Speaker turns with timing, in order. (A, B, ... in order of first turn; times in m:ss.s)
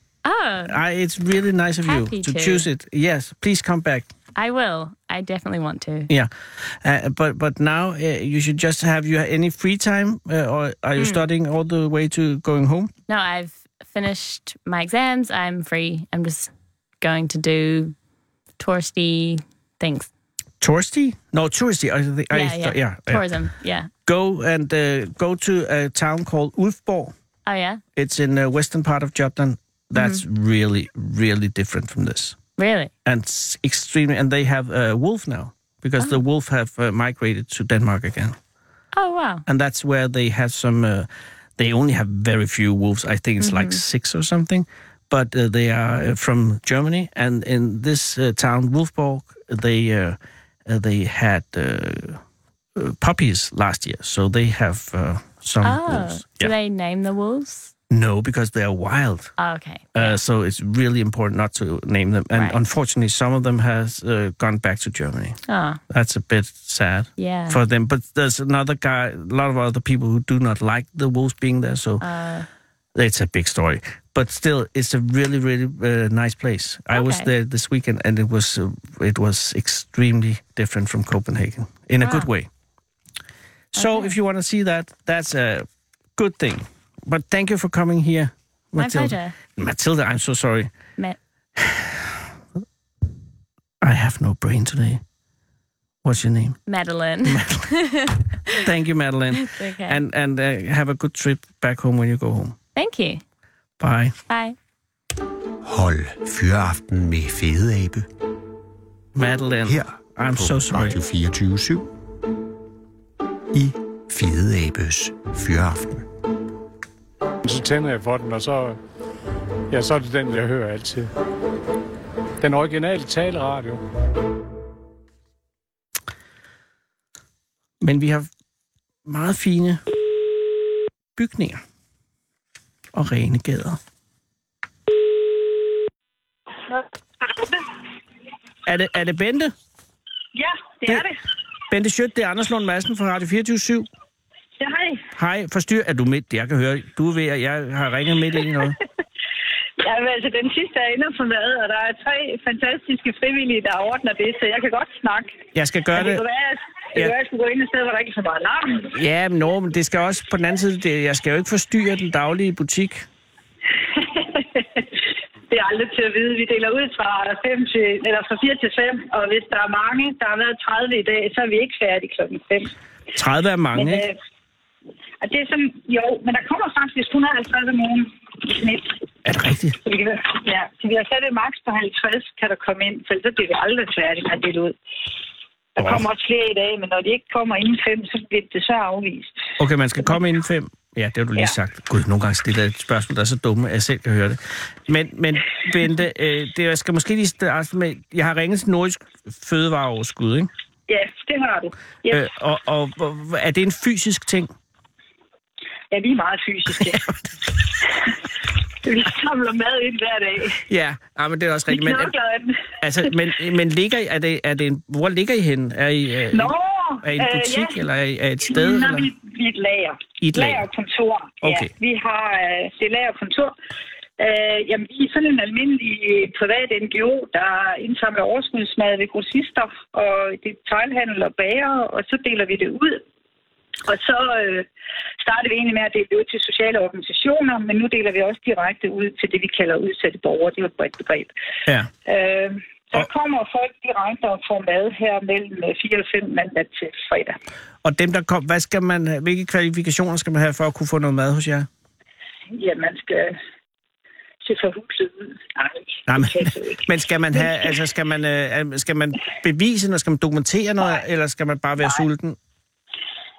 0:00.2-0:00.8 A
0:00.7-0:04.1 B
0:01.8-0:02.7 A
0:04.4-0:06.1 A
0:06.1-0:12.9 B
0:11.0-0:11.2 A
0:13.1-0:17.9 A
0:18.6-0:20.1 A
0:20.6-0:23.3 B
0:22.3-0:23.9 A
0:24.1-0:27.2 B
0:27.5-0:27.8 A
0:28.0-0:32.4 B
0:30.0-0:30.2 A
0:32.6-0:32.9 A
0:33.1-0:38.4 B
0:38.9-0:39.4 A
0:39.5-0:52.2 B
0:43.4-0:43.8 A
0:52.8-0:56.5 B
0:55.6-0:57.7 A
0:57.9-0:59.3 B
0:59.4-1:00.2 A
1:00.0-1:05.4 B
1:02.3-1:02.6 A
1:05.5-1:05.8 A
1:05.9-1:12.0 B
1:07.2-1:07.6 A
1:12.0-1:12.5 A
1:13.0-1:22.5 B
1:16.9-1:17.3 A
1:22.0-1:22.3 A
1:23.7-1:30.7 B
1:23.8-1:24.2 A
1:28.8-1:29.4 A
1:31.6-1:32.3 B
1:33.8-1:35.0 B
1:36.0-1:36.6 B
1:36.7-1:38.6 A
1:37.2-1:37.6 B
1:38.5-1:42.6 B
1:39.4-1:40.0 A
1:42.8-1:43.2 A
1:43.8-1:44.2 B
1:44.3-1:44.6 A
1:45.6-1:48.1 C
1:49.2-1:51.0 B
1:49.6-1:51.9 C
1:53.5-1:56.1 C
1:57.4-1:58.8 D
1:59.7-2:01.1 D
2:02.4-2:03.8 D
2:07.8-2:08.3 B
2:09.1-2:09.8 B
2:11.2-2:11.6 B
2:12.9-2:13.8 B
2:16.7-2:17.7 E
2:18.7-2:19.5 B
2:20.3-2:21.2 E
2:21.7-2:23.9 B
2:24.6-2:25.0 E
2:25.2-2:28.8 B
2:29.8-2:35.4 E
2:35.5-2:36.2 B
2:35.9-2:38.9 E
2:38.9-2:43.1 B
2:43.8-2:44.9 E
2:45.5-2:52.7 E
2:53.1-2:54.0 B
2:53.7-2:54.2 E
2:55.2-2:59.0 E
2:59.2-2:59.8 B
2:59.8-3:04.8 E
3:05.8-3:09.4 E
3:05.8-3:06.0 B
3:09.6-3:20.5 B
3:20.9-3:22.2 E
3:22.1-3:24.5 B
3:25.9-3:27.1 E
3:26.8-3:27.1 B
3:27.8-3:28.2 E
3:28.8-3:30.6 E
3:30.7-3:32.1 B
3:31.7-3:33.2 E
3:32.8-3:39.1 B
3:36.3-3:37.8 E
3:38.4-3:43.6 E
3:40.2-3:40.6 B
3:41.4-3:41.7 B
3:44.2-3:53.0 E
3:53.8-3:54.7 E
3:55.2-4:01.3 E
4:02.0-4:07.4 E
4:07.8-4:11.7 B
4:12.5-4:13.4 E
4:14.4-4:17.8 E
4:16.1-4:22.4 B